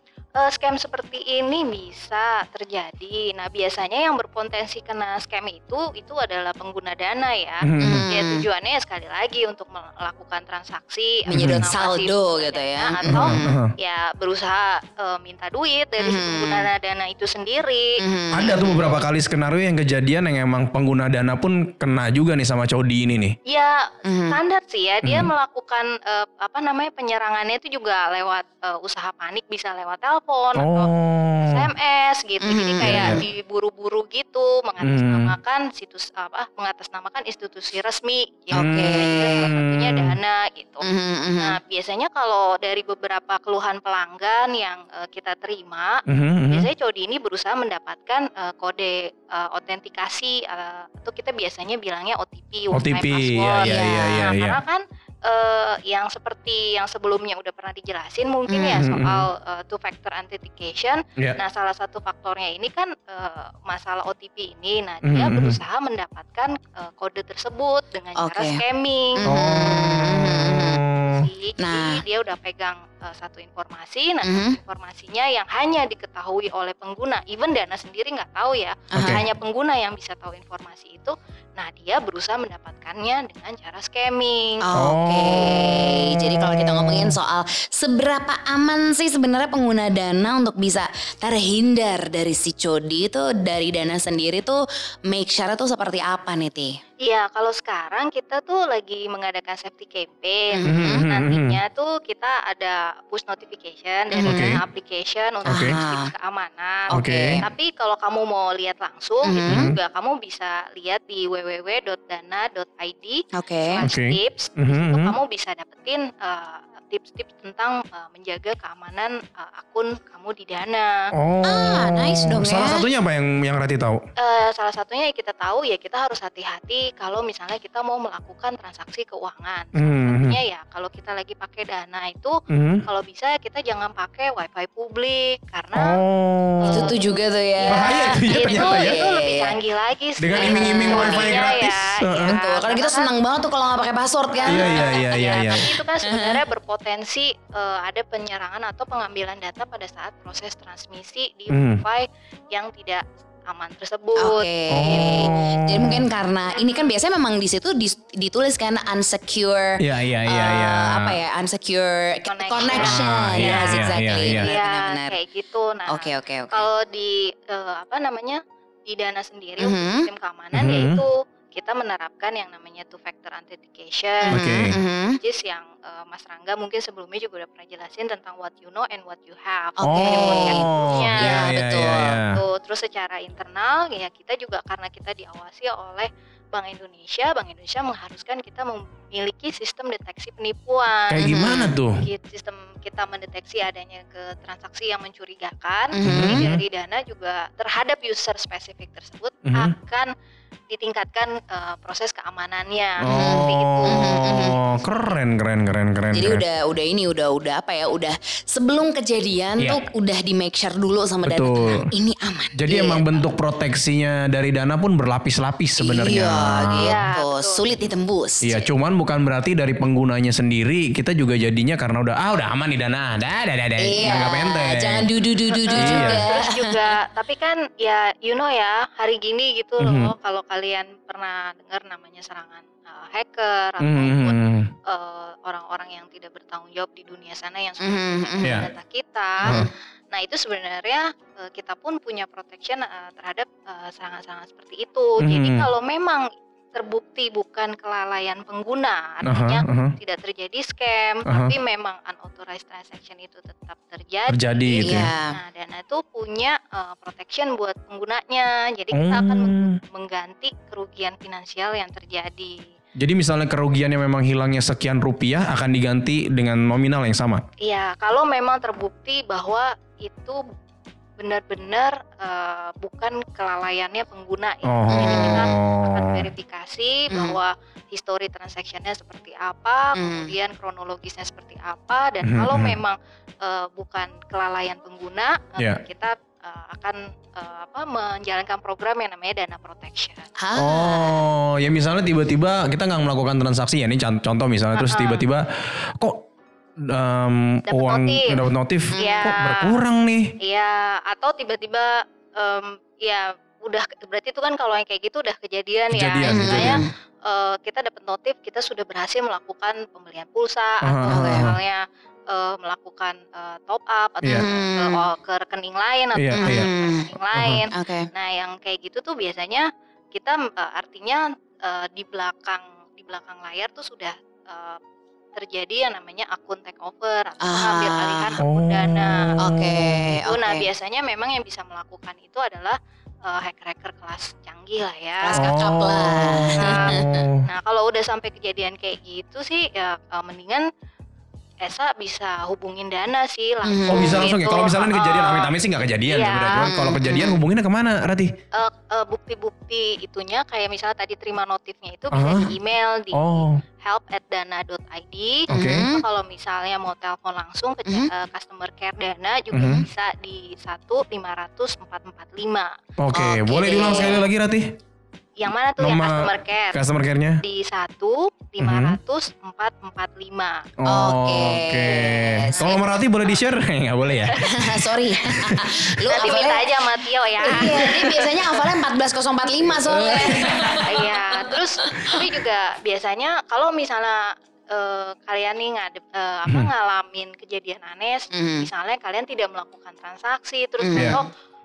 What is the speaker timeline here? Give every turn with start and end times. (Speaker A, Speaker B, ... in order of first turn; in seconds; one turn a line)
Speaker A: 0.4-18.0
Speaker B: 7.6-8.1
Speaker C: 7.8-8.4
Speaker C: 11.3-13.6
Speaker B: 11.3-11.6
Speaker B: 13.1-13.7
Speaker C: 16.0-16.7
Speaker C: 18.0-19.0
Speaker B: 18.3-23.4
Speaker A: 23.5-30.9
Speaker C: 24.1-24.4
Speaker B: 25.0-25.3
Speaker B: 30.6-31.7
Speaker A: 31.4-40.9
Speaker C: 32.4-33.2
Speaker B: 32.8-33.2
Speaker B: 34.8-35.3
Speaker C: 38.5-39.5
Speaker B: 38.5-40.2
Speaker C: 40.8-41.6
Speaker A: 41.4-69.2
Speaker B: 46.1-46.7
Speaker B: 52.7-54.6
Speaker C: 53.6-54.3
Speaker C: 58.5-58.8
Speaker B: 58.7-59.3
Speaker B: 65.0-65.6
Speaker C: 68.2-68.6
Speaker C: 69.2-70.8
Speaker B: 69.3-71.3
Speaker A: 71.1-84.7
Speaker C: 71.6-72.0
Speaker C: 74.2-74.6
Speaker C: 78.9-79.2
Speaker B: 78.9-79.2
Speaker C: 84.6-96.8
Speaker B: 84.8-87.2
Speaker A: 97.0-121.1
Speaker C: 100.5-101.0
Speaker B: 100.7-101.6
Speaker C: 104.1-104.6
Speaker B: 104.2-104.6
Speaker B: 105.5-105.8
Speaker C: 105.5-106.1
Speaker C: 106.9-107.4
Speaker B: 106.9-107.4
Speaker C: 109.2-109.7
Speaker B: 109.5-109.8
Speaker C: 113.4-113.8
Speaker B: 113.8-115.2
Speaker B: 121.2-124.0
Speaker C: 121.4-122.8
Speaker A: 124.2-136.0
Speaker B: 129.8-130.4
Speaker B: 132.5-132.8
Speaker B: 135.8-136.9
Speaker A: 136.6-143.1
Speaker C: 136.7-139.6
Speaker B: 137.7-139.0
Speaker B: 140.2-142.4
Speaker C: 140.3-141.6
Speaker C: 142.1-146.4
Speaker A: 144.3-155.0
Speaker B: 144.5-145.7
Speaker B: 151.5-151.8
Speaker C: 154.2-165.2
Speaker B: 154.7-156.1
Speaker A: 156.5-156.9
Speaker B: 159.8-161.2
Speaker A: 162.3-174.6
Speaker B: 162.6-164.5
Speaker C: 165.9-166.7
Speaker C: 169.6-170.1
Speaker B: 170.5-171.0
Speaker C: 174.2-175.2
Speaker B: 174.3-174.8
Speaker A: 175.2-181.5
Speaker C: 179.8-182.2
Speaker B: 179.8-182.4
Speaker A: 182.2-191.3
Speaker B: 191.1-192.0
Speaker C: 191.2-191.8
Speaker A: 192.0-200.1
Speaker C: 195.9-196.4
Speaker B: 196.0-196.6
Speaker B: 199.5-199.7
Speaker A: 200.7-205.1
Speaker B: 203.0-206.4
Speaker C: 203.1-204.6
Speaker C: 206.1-213.3
Speaker B: 209.6-209.8
Speaker B: 211.2-211.9
Speaker B: 212.6-217.0
Speaker C: 215.8-218.7
Speaker A: 216.8-217.6
Speaker B: 218.4-225.1
Speaker C: 223.8-226.8
Speaker A: 225.6-262.7
Speaker B: 225.7-226.2
Speaker B: 229.8-230.1
Speaker B: 233.8-234.7
Speaker C: 237.8-238.7
Speaker B: 238.4-238.7
Speaker C: 239.4-239.7
Speaker B: 245.2-245.7
Speaker B: 249.3-249.9
Speaker B: 251.3-251.6
Speaker B: 254.3-255.1
Speaker C: 254.8-255.4
Speaker B: 258.9-259.8
Speaker B: 263.0-267.4
Speaker A: 267.6-270.4
Speaker A: 271.2-290.3
Speaker B: 274.6-276.3
Speaker C: 274.9-275.5
Speaker C: 277.1-277.4
Speaker C: 280.0-280.3
Speaker B: 282.2-282.8
Speaker C: 290.4-291.2
Speaker B: 290.6-295.5
Speaker A: 294.8-295.2
Speaker B: 296.0-296.2
Speaker B: 296.8-300.3
Speaker A: 297.7-298.4
Speaker C: 298.9-299.3
Speaker A: 298.9-299.8
Speaker A: 300.4-324.8
Speaker B: 305.9-306.8
Speaker C: 306.2-306.9
Speaker B: 310.8-311.6
Speaker C: 311.1-311.5
Speaker C: 314.3-315.1
Speaker B: 316.2-316.7
Speaker C: 316.4-317.1
Speaker B: 317.3-317.6
Speaker C: 317.7-318.1
Speaker A: 325.4-329.3
Speaker C: 327.4-328.4
Speaker B: 328.4-330.1
Speaker C: 329.4-330.7
Speaker A: 330.2-335.5
Speaker C: 335.2-337.2
Speaker B: 335.4-337.4
Speaker A: 336.6-340.7
Speaker A: 341.6-345.5
Speaker C: 343.6-344.3
Speaker B: 343.9-348.3
Speaker A: 346.1-346.8
Speaker C: 346.6-347.4
Speaker A: 348.5-362.8
Speaker B: 352.1-352.5
Speaker B: 353.1-353.6
Speaker C: 355.5-356.0
Speaker B: 355.5-355.9
Speaker B: 359.5-359.9
Speaker B: 363.0-364.8
Speaker C: 363.1-364.3
Speaker A: 365.4-366.8
Speaker B: 365.8-367.4
Speaker A: 367.4-370.6
Speaker B: 368.6-369.0
Speaker B: 370.8-376.4
Speaker C: 370.9-372.8
Speaker A: 372.5-373.0
Speaker C: 374.4-376.8
Speaker A: 376.1-378.2
Speaker C: 377.4-381.1
Speaker B: 377.4-378.6
Speaker B: 379.6-381.1
Speaker A: 380.0-391.3
Speaker C: 388.3-388.7
Speaker C: 390.8-391.3